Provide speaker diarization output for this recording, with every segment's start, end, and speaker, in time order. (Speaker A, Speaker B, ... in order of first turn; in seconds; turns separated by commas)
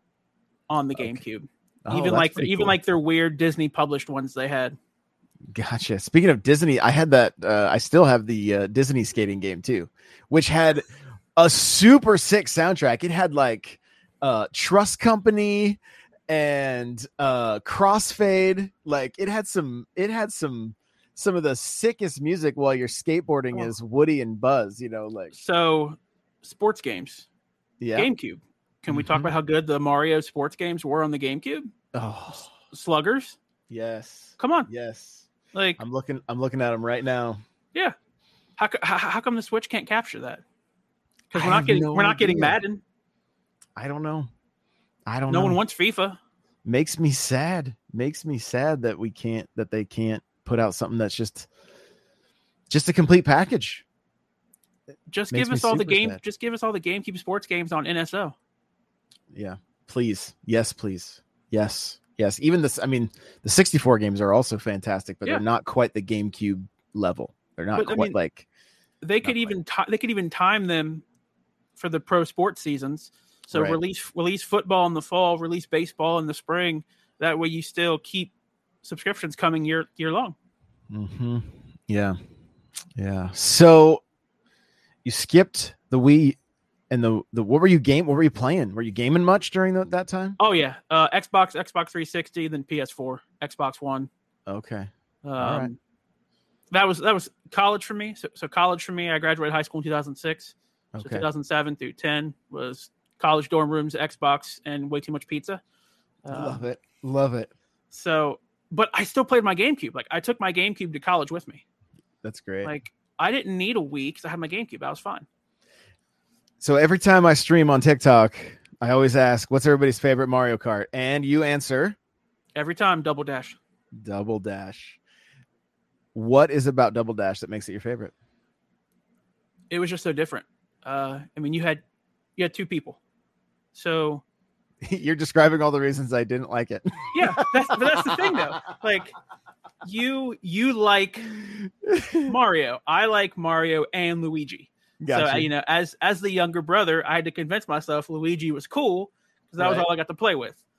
Speaker A: 0.7-4.8, Speaker B: 1.0-1.2, Speaker B: 1.9-2.8, Speaker B: 5.5-25.4, Speaker A: 25.3-27.3, Speaker B: 27.8-28.1, Speaker A: 28.0-31.7, Speaker B: 28.9-29.3, Speaker B: 31.9-32.5, Speaker A: 32.5-33.4, Speaker B: 33.7-37.4, Speaker A: 34.4-34.7, Speaker A: 35.5-35.8, Speaker A: 38.6-40.4, Speaker A: 41.3-42.8, Speaker B: 41.3-42.6, Speaker B: 43.8-44.3, Speaker B: 45.1-45.6, Speaker A: 45.3-46.2, Speaker B: 46.6-51.5, Speaker B: 52.7-53.8, Speaker A: 55.1-58.4, Speaker B: 55.3-56.2, Speaker B: 59.3-68.5, Speaker A: 67.8-68.2, Speaker A: 69.0-71.0, Speaker B: 69.2-69.6, Speaker A: 71.8-78.3, Speaker B: 73.5-73.8, Speaker A: 78.8-80.3, Speaker B: 80.9-82.2, Speaker B: 83.0-84.0, Speaker B: 85.0-86.4, Speaker B: 86.9-90.4, Speaker A: 90.4-94.1, Speaker B: 94.5-95.7, Speaker A: 95.2-95.8, Speaker A: 96.7-105.6, Speaker B: 100.9-101.3, Speaker A: 106.2-106.6, Speaker B: 106.3-107.5, Speaker A: 107.9-111.6, Speaker B: 112.2-112.7, Speaker A: 112.6-115.3, Speaker B: 116.6-122.0, Speaker A: 122.5-123.6, Speaker B: 124.0-125.0, Speaker B: 126.1-128.1, Speaker A: 129.7-131.8, Speaker A: 132.4-133.0, Speaker A: 133.7-134.2, Speaker B: 134.8-138.6, Speaker A: 137.1-139.1, Speaker A: 139.8-141.4, Speaker B: 141.6-142.3, Speaker A: 142.3-150.6, Speaker B: 145.0-145.5, Speaker B: 149.6-149.9